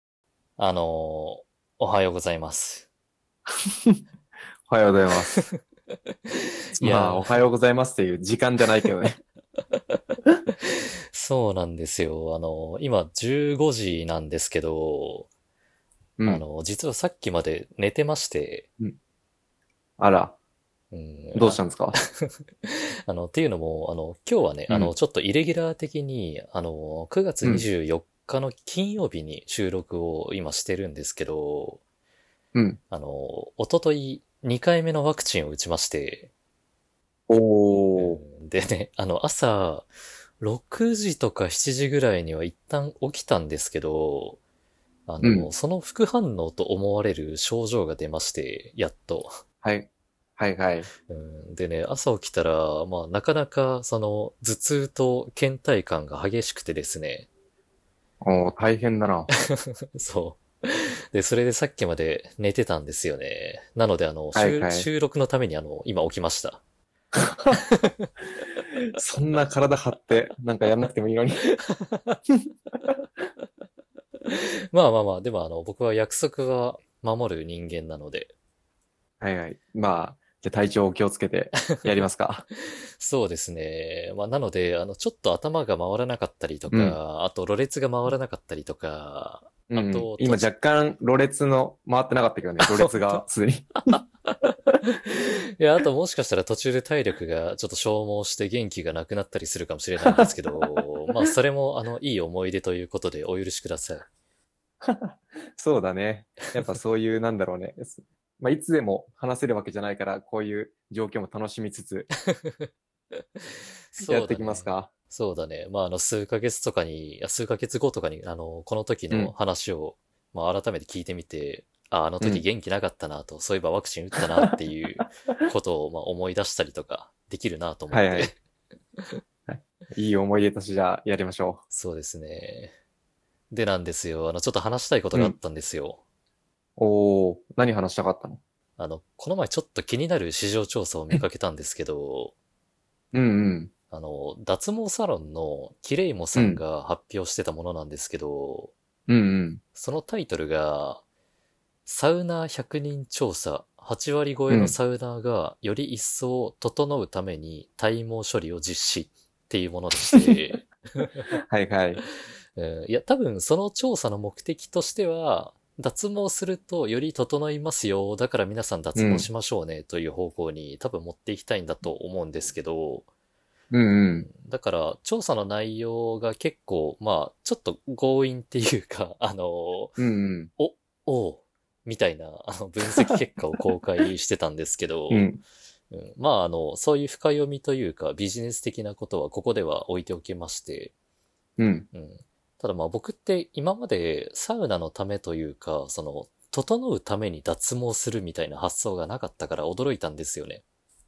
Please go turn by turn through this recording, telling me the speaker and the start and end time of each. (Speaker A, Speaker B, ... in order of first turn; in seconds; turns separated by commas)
Speaker A: 0.6-2.9, Speaker B: 3.6-4.0, Speaker B: 4.7-5.3, Speaker A: 6.3-7.4, Speaker B: 6.8-9.2, Speaker A: 10.7-15.3, Speaker B: 16.2-16.4, Speaker A: 16.2-18.7, Speaker B: 20.0-20.3, Speaker A: 20.9-21.6, Speaker B: 21.3-22.0, Speaker A: 22.2-31.8, Speaker B: 32.5-32.8, Speaker A: 32.9-36.3, Speaker B: 37.3-38.2, Speaker A: 37.9-39.9, Speaker A: 40.4-44.4, Speaker A: 45.1-49.3, Speaker B: 45.2-45.5, Speaker B: 49.6-50.9, Speaker A: 51.1-57.3, Speaker B: 58.2-59.3, Speaker A: 59.5-66.6, Speaker B: 64.3-64.9, Speaker B: 67.2-67.6, Speaker A: 67.5-68.1, Speaker B: 68.7-71.4, Speaker A: 71.6-72.2, Speaker A: 74.3-78.3, Speaker B: 79.2-82.5, Speaker A: 83.0-90.5, Speaker B: 86.7-87.0, Speaker B: 89.7-94.0, Speaker A: 92.7-93.1, Speaker A: 95.0-104.1, Speaker B: 100.0-100.8, Speaker B: 104.8-112.1, Speaker A: 112.3-112.7, Speaker A: 113.9-128.3, Speaker B: 114.0-114.9, Speaker B: 127.9-128.3, Speaker B: 129.5-131.6, Speaker A: 131.7-132.7, Speaker A: 133.5-136.0, Speaker B: 136.8-138.4, Speaker A: 138.8-142.3, Speaker B: 143.1-143.7, Speaker A: 143.9-148.7, Speaker B: 146.3-146.6, Speaker B: 149.1-149.6, Speaker A: 149.8-151.0, Speaker A: 151.8-161.2, Speaker B: 154.5-154.7, Speaker B: 161.5-162.0, Speaker A: 162.6-173.1, Speaker B: 168.9-169.3, Speaker B: 173.7-174.3, Speaker A: 174.2-180.0, Speaker B: 180.0-180.5, Speaker A: 180.6-185.3, Speaker B: 182.9-183.1, Speaker B: 185.1-185.4, Speaker A: 185.9-190.9, Speaker B: 191.6-191.9, Speaker A: 191.9-200.6